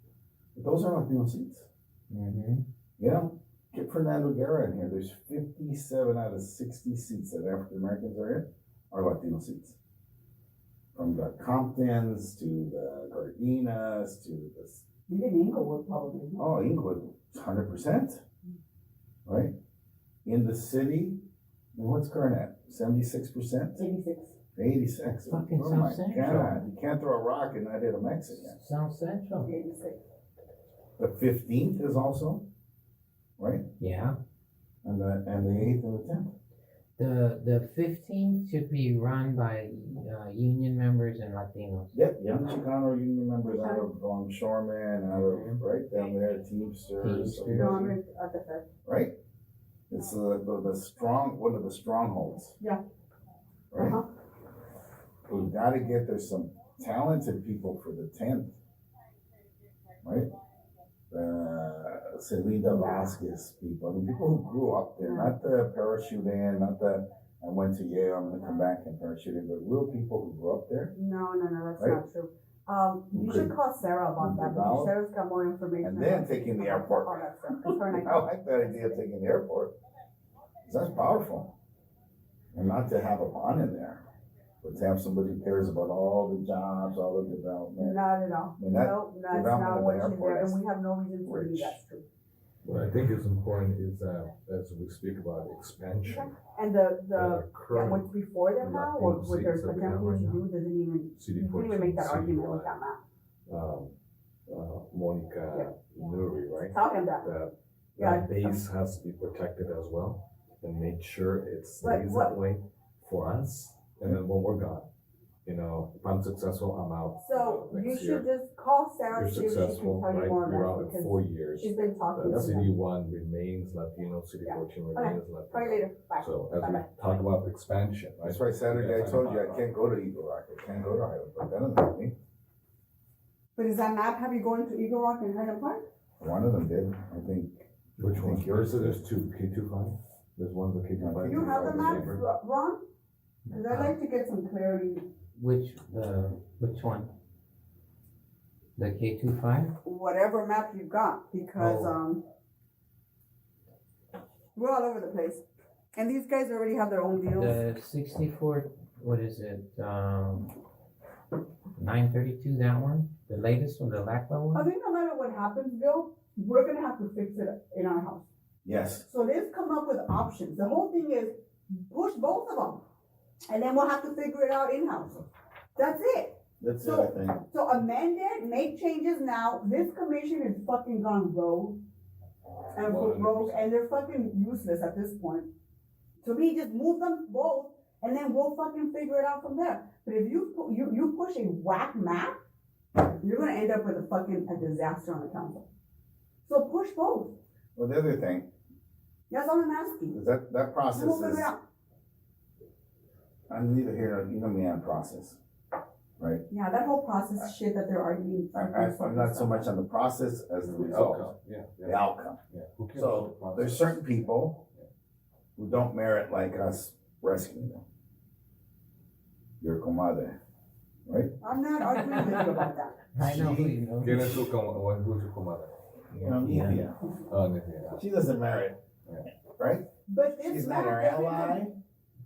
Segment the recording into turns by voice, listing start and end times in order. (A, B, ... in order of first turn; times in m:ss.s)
0:00.6-0:01.7 A
0:02.1-0:02.6 B
0:03.0-0:09.8 A
0:11.0-0:14.8 A
0:15.1-0:16.4 C
0:16.4-0:18.2 A
0:19.3-0:19.5 A
0:20.2-0:21.2 A
0:21.8-0:23.8 A
0:23.8-0:24.4 C
0:24.6-0:28.6 A
0:25.3-0:26.6 B
0:28.3-0:29.5 B
0:29.4-0:30.0 C
0:31.0-0:32.5 A
0:33.4-0:33.6 A
0:33.8-0:34.2 B
0:34.8-0:36.3 A
0:37.0-0:42.0 B
0:41.9-0:48.0 A
0:43.5-0:43.8 C
0:45.1-0:45.6 B
0:47.0-0:47.8 B
0:47.6-0:48.7 C
0:48.9-0:49.2 A
0:49.9-0:52.6 A
0:53.7-0:54.0 A
0:53.8-0:54.1 C
0:55.3-0:58.6 A
1:00.0-1:00.3 A
1:01.1-1:10.9 A
1:02.6-1:03.1 C
1:05.0-1:05.3 C
1:11.0-1:18.2 C
1:13.1-1:13.5 A
1:14.2-1:14.9 A
1:15.8-1:19.7 A
1:20.6-1:21.6 A
1:22.5-1:24.1 A
1:24.6-1:28.0 A
1:27.8-1:32.0 C
1:28.6-1:30.6 A
1:31.2-1:31.8 A
1:32.6-1:36.4 D
1:36.0-1:43.0 C
1:37.2-1:40.4 D
1:41.1-1:42.8 D
1:43.5-1:44.0 D
1:44.5-1:54.9 D
1:46.7-1:47.3 C
1:48.0-1:48.6 C
1:51.8-1:52.4 C
1:55.4-1:58.3 D
1:57.2-2:02.7 C
1:59.1-2:09.7 D
2:04.4-2:07.2 C
2:08.2-2:12.1 A
2:13.6-2:15.8 C
2:16.2-2:19.0 A
2:18.0-2:22.2 D
2:21.0-2:22.2 A
2:21.3-2:22.8 C
2:23.5-2:24.0 B
2:23.5-2:25.1 C
2:25.4-2:27.1 B
2:28.8-2:29.7 B
2:29.8-2:32.2 C
2:31.6-2:32.0 B
2:34.6-2:35.4 C
2:36.0-2:37.6 C
2:37.3-2:40.5 B
2:41.8-2:44.7 B
2:44.5-2:48.3 C
2:48.6-2:49.0 A
2:49.1-2:52.8 C
2:53.5-2:55.2 C
2:55.8-3:01.8 C
2:56.6-2:57.4 A
3:02.7-3:05.5 C
3:02.8-3:03.8 D
3:06.2-3:12.3 C
3:13.0-3:15.7 C
3:16.5-3:17.4 C
3:17.8-3:18.5 A
3:19.3-3:20.2 C
3:20.1-3:21.5 A
3:20.9-3:21.6 C
3:23.5-3:25.4 A
3:26.5-3:29.7 C
3:28.5-3:31.3 A
3:30.6-3:34.0 D
3:31.8-3:32.4 A
3:32.9-3:34.6 A
3:35.6-3:37.8 A
3:39.6-3:40.4 A
3:41.1-3:41.3 A
3:41.4-3:43.0 C
3:41.8-3:42.6 B
3:43.1-3:44.5 B
3:43.2-3:43.8 A
3:44.0-3:46.8 D
3:46.1-3:47.0 A
3:46.4-3:46.9 B
3:47.3-3:48.0 D
3:48.0-3:48.8 A
3:49.5-3:49.9 A
3:50.1-3:51.6 C
3:50.4-3:51.8 A